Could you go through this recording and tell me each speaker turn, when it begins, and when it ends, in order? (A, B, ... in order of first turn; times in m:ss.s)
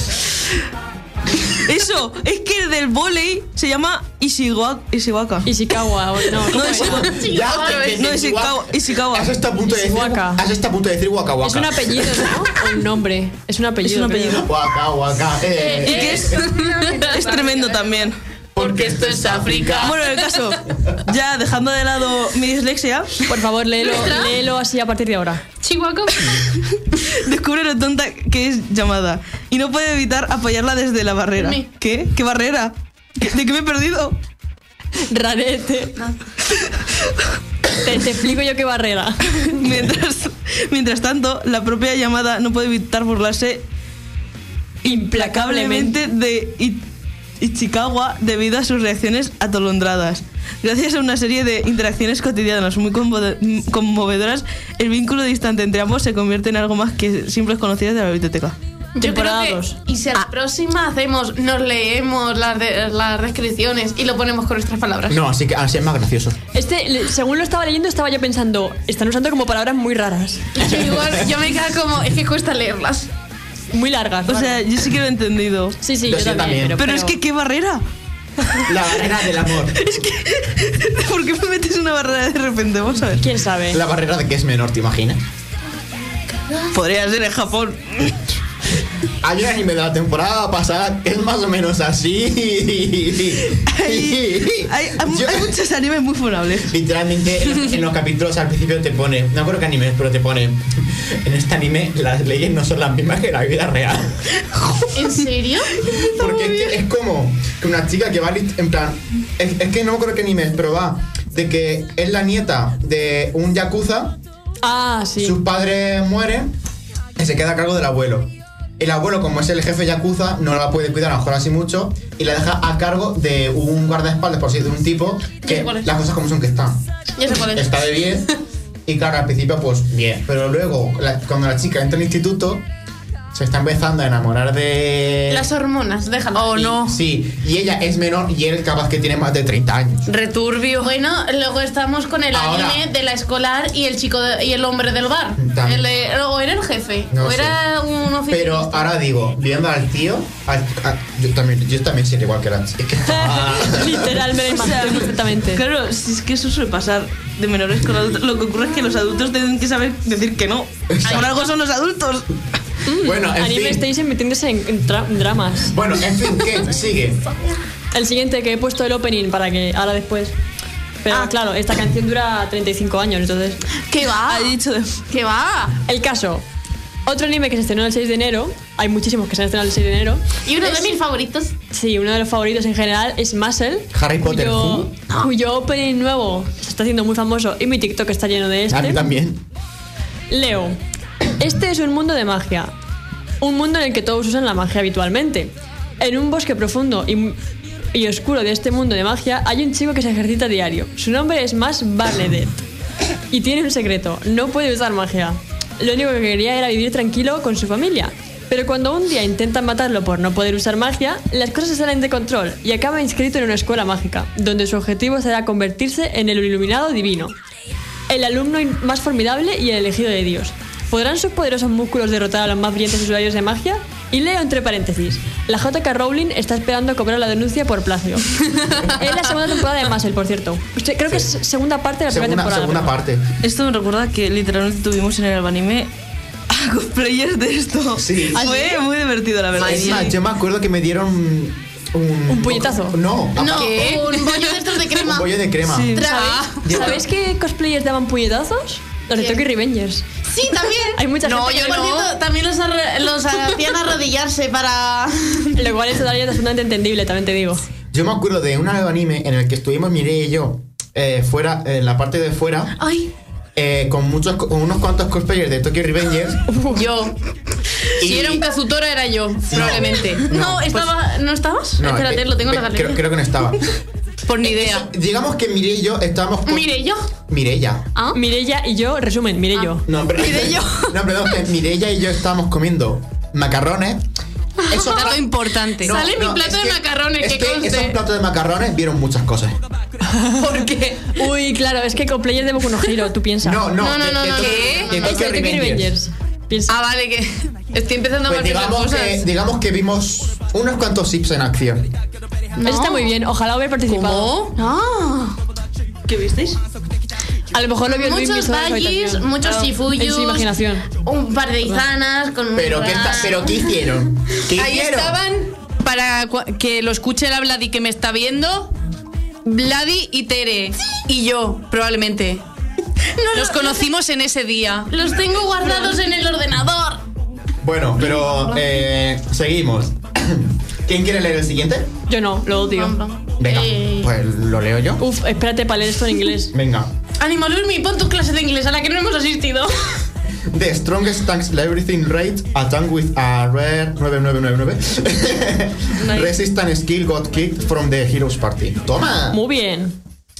0:01.6-0:05.5 A
0:05.4-0:07.1 B
0:06.4-0:07.2 A
0:06.5-0:08.0 C
0:07.0-0:12.3 D
0:07.9-0:09.4 A
0:09.7-0:10.4 B
0:11.4-0:14.4 B
0:13.8-0:14.5 A
0:14.3-0:16.5 D
0:15.5-0:20.6 C
0:15.8-0:18.2 A
0:18.5-0:20.0 D
0:19.8-0:23.3 A
0:23.2-0:25.4 B
0:23.8-0:24.4 C
0:25.6-0:26.4 C
0:26.3-0:34.2 A
0:31.4-0:31.6 C
0:35.1-0:36.0 B
0:37.8-0:39.6 B
0:39.4-0:43.6 A
0:44.8-0:46.8 A
0:44.8-0:46.0 B
0:47.4-0:58.5 A
0:59.0-1:05.2 C
0:59.0-0:59.8 B
1:05.1-1:06.4 D
1:06.5-1:10.5 B
1:10.5-1:13.1 C
1:10.6-1:11.3 D
1:13.7-1:14.6 B
1:14.3-1:15.8 A
1:15.8-1:17.2 B
1:16.0-1:16.8 D
1:16.8-1:17.8 A
1:18.4-1:18.8 A
1:18.6-1:19.8 D
1:19.6-1:23.3 A
1:23.2-1:23.8 B
1:23.7-1:25.2 D
1:26.7-1:28.3 A
1:29.2-1:35.5 D
1:33.6-1:36.8 A
1:36.7-1:44.5 D
1:44.9-1:46.7 C
1:45.8-1:54.2 D
1:54.6-1:55.4 B
1:55.2-1:56.5 D
1:57.2-2:08.3 D
2:05.4-2:05.9 C
2:07.2-2:07.9 C
2:08.8-2:12.7 D
2:13.3-2:15.5 D
2:15.3-2:16.8 C
2:16.4-2:20.0 D
2:16.6-2:16.9 E
2:20.1-2:28.9 C
2:22.3-2:22.9 D
2:25.4-2:25.9 D
2:27.1-2:27.6 D
2:28.3-2:34.3 D
2:33.0-2:35.6 B
2:34.5-2:42.4 A
2:40.9-2:41.3 D
2:42.8-2:45.8 B
2:43.0-2:43.8 D
2:45.7-2:47.3 D
2:47.9-2:50.3 B
2:51.0-2:53.6 B
2:53.9-2:54.6 C
2:54.2-2:55.0 A
2:55.1-2:55.8 C
2:55.8-2:56.4 B
2:57.0-3:00.8 B
3:00.4-3:01.5 C
3:01.7-3:09.0 B
3:03.9-3:04.9 D
3:08.7-3:09.4 D
3:10.3-3:10.8 B
3:11.4-3:12.7 B
3:13.4-3:17.4 B
3:17.9-3:22.6 B
3:23.3-3:37.3 B
3:38.1-3:53.0 B
3:52.1-3:53.3 D
3:53.4-3:55.9 A
3:56.5-4:00.1 A
3:58.0-3:58.5 D
3:58.3-3:58.8 B
3:59.6-4:04.0 D
3:59.6-4:00.0 E
4:02.3-4:03.0 B
4:03.4-4:05.4 C
4:03.5-4:04.5 E
4:04.9-4:06.0 D
4:05.6-4:06.2 A
4:05.9-4:07.0 C
4:06.0-4:10.0 B
4:06.6-4:07.0 D
4:09.2-4:09.4 C
4:10.3-4:15.6 C
4:10.9-4:12.0 B
4:11.2-4:12.1 E
4:15.6-4:17.6 B
4:17.9-4:22.8 D
4:22.8-4:23.1 C
4:23.6-4:26.5 D
4:26.5-4:26.9 B
4:26.7-4:27.2 E
4:28.0-4:28.4 D
4:28.0-4:30.8 E
4:29.5-4:30.8 D
4:30.3-4:33.0 C
4:31.8-4:33.6 D
4:34.2-4:34.9 E
4:34.4-4:36.7 D
4:36.5-4:37.1 C
4:37.3-4:37.9 D
4:38.1-4:39.9 B
4:39.8-4:44.1 D
4:40.2-4:41.0 C
4:44.7-4:49.6 D
4:44.7-4:48.0 C
4:44.9-4:46.0 E
4:50.1-4:50.4 B
4:50.4-4:51.2 E
4:51.1-4:53.7 B
4:53.4-4:55.9 D
4:53.8-4:55.3 C
4:54.3-4:54.9 E
4:54.9-4:56.8 B
4:56.7-4:59.2 E
4:58.2-5:01.9 D
5:02.6-5:03.1 C
5:02.6-5:04.4 B
5:03.9-5:05.4 C
5:04.2-5:04.5 E
5:06.0-5:06.6 A
5:07.5-5:09.3 B
5:07.9-5:13.7 C
5:09.4-5:09.8 A
5:09.9-5:10.9 B
5:12.5-5:15.2 D
5:14.6-5:18.7 E
5:19.4-5:22.4 E
5:23.1-5:23.9 C
5:23.3-5:24.9 E
5:24.9-5:27.0 C
5:27.6-5:31.9 D
5:28.1-5:28.4 C
5:32.1-5:33.0 B
5:32.4-5:34.1 C
5:33.4-5:35.0 D
5:35.0-5:36.5 B
5:36.5-5:36.9 D
5:37.2-5:40.0 C
5:40.5-5:49.4 D
5:46.0-5:46.4 A
5:49.3-5:50.0 B